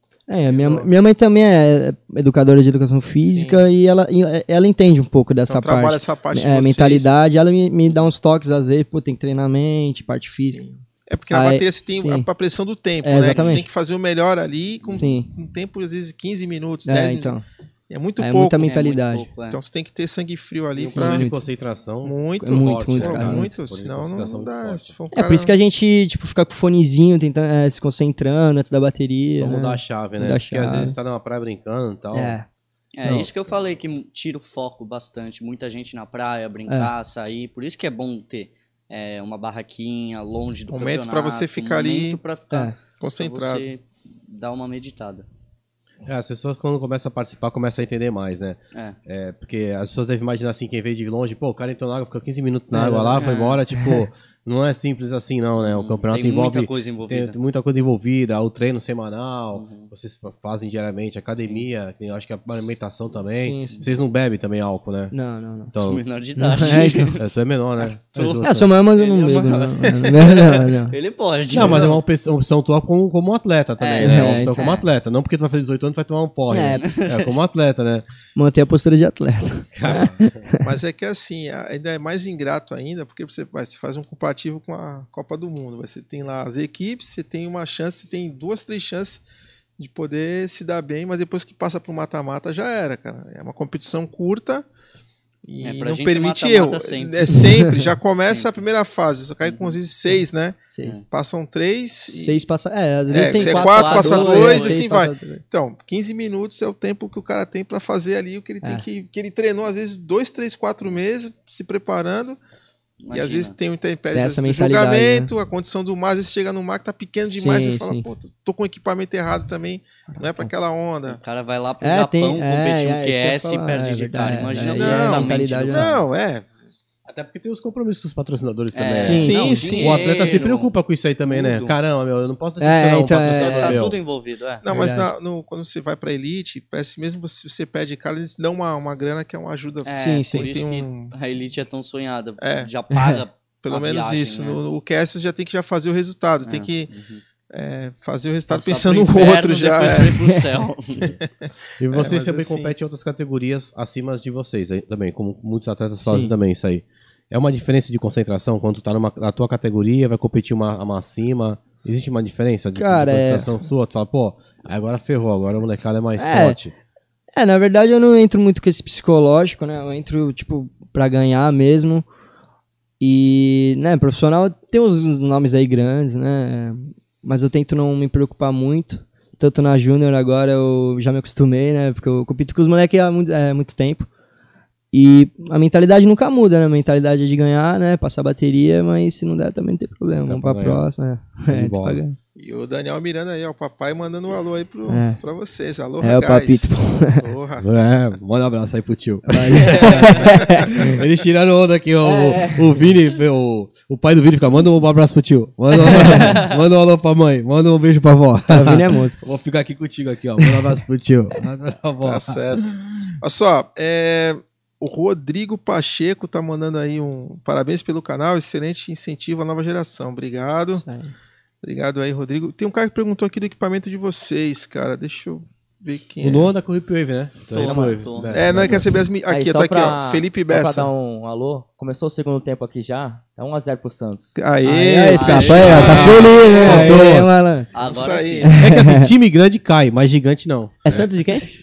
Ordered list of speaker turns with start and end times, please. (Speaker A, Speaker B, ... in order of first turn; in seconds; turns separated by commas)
Speaker A: 0.3-10.6, Speaker B: 0.5-0.9, Speaker B: 3.2-3.6, Speaker B: 5.5-7.1, Speaker B: 10.4-17.4, Speaker A: 11.3-12.3, Speaker A: 13.0-13.7, Speaker C: 13.2-13.6, Speaker A: 14.9-15.3, Speaker A: 16.9-17.4, Speaker B: 17.9-18.7, Speaker A: 18.2-19.3, Speaker C: 18.6-19.6, Speaker B: 19.5-21.2, Speaker D: 20.8-24.9, Speaker A: 20.9-21.4, Speaker B: 22.0-25.5, Speaker A: 22.4-23.5, Speaker A: 25.1-31.0, Speaker D: 29.4-32.4, Speaker A: 32.1-32.5, Speaker C: 32.9-45.3, Speaker B: 40.7-42.2, Speaker B: 43.0-43.6, Speaker D: 46.0-65.1, Speaker A: 52.7-53.2, Speaker C: 53.1-53.6, Speaker C: 55.6-57.4, Speaker C: 59.5-59.9, Speaker A: 63.3-63.8, Speaker A: 65.1-65.7, Speaker D: 65.7-66.0, Speaker C: 65.8-67.2, Speaker A: 66.4-67.1, Speaker D: 66.6-68.7, Speaker C: 67.8-72.0, Speaker A: 68.4-71.0, Speaker D: 71.5-78.0, Speaker B: 71.6-71.9, Speaker C: 73.8-74.9, Speaker A: 74.0-74.6, Speaker A: 76.5-76.9, Speaker C: 76.8-77.4, Speaker A: 78.4-80.6, Speaker D: 79.7-80.4, Speaker B: 80.6-89.2, Speaker B: 89.8-94.7, Speaker B: 95.5-102.4, Speaker C: 95.6-97.5, Speaker A: 97.4-97.7, Speaker C: 98.2-98.5, Speaker C: 99.4-99.8, Speaker A: 100.7-101.0, Speaker A: 102.1-105.4, Speaker B: 103.1-112.4, Speaker C: 103.1-104.8, Speaker C: 113.0-113.5, Speaker B: 113.1-121.2, Speaker A: 114.1-115.3, Speaker A: 117.3-118.1, Speaker A: 120.1-120.5, Speaker C: 121.1-126.0, Speaker A: 121.8-126.0, Speaker B: 124.8-126.7, Speaker D: 127.1-134.0, Speaker C: 128.7-130.7, Speaker A: 128.9-129.8, Speaker B: 129.2-130.3, Speaker C: 131.3-131.8, Speaker A: 132.6-133.8, Speaker C: 133.3-134.7, Speaker B: 134.6-141.1, Speaker A: 134.7-135.1, Speaker C: 139.8-144.6, Speaker A: 139.9-140.4, Speaker B: 142.4-142.7, Speaker A: 142.9-143.2, Speaker B: 143.6-146.9, Speaker C: 146.4-147.2, Speaker B: 147.5-150.2, Speaker C: 148.5-151.1, Speaker B: 151.1-152.7, Speaker D: 151.8-166.7, Speaker A: 156.0-156.3, Speaker A: 162.8-163.5, Speaker A: 166.2-166.6, Speaker A: 167.3-172.1, Speaker A: 173.0-184.1, Speaker A: 184.9-192.2, Speaker D: 190.3-190.8, Speaker D: 191.5-192.0, Speaker B: 192.4-197.7, Speaker A: 194.9-195.2, Speaker A: 196.0-197.2, Speaker D: 197.6-212.7, Speaker A: 199.3-200.8, Speaker C: 199.6-200.1, Speaker B: 200.3-200.9, Speaker A: 202.0-202.7, Speaker A: 205.8-206.4, Speaker C: 206.1-206.5, Speaker A: 208.5-209.2, Speaker B: 212.0-220.8, Speaker A: 220.8-221.1, Speaker B: 221.6-226.5, Speaker D: 226.2-229.0, Speaker C: 227.5-228.4, Speaker E: 227.6-228.0, Speaker B: 228.3-230.9, Speaker E: 229.2-234.4, Speaker B: 234.3-236.9, Speaker A: 234.6-237.7, Speaker C: 235.1-237.0, Speaker D: 235.4-237.3, Speaker C: 237.7-238.6, Speaker B: 237.8-238.6, Speaker A: 238.4-239.1, Speaker D: 238.6-241.1, Speaker A: 240.9-241.4, Speaker E: 240.9-241.5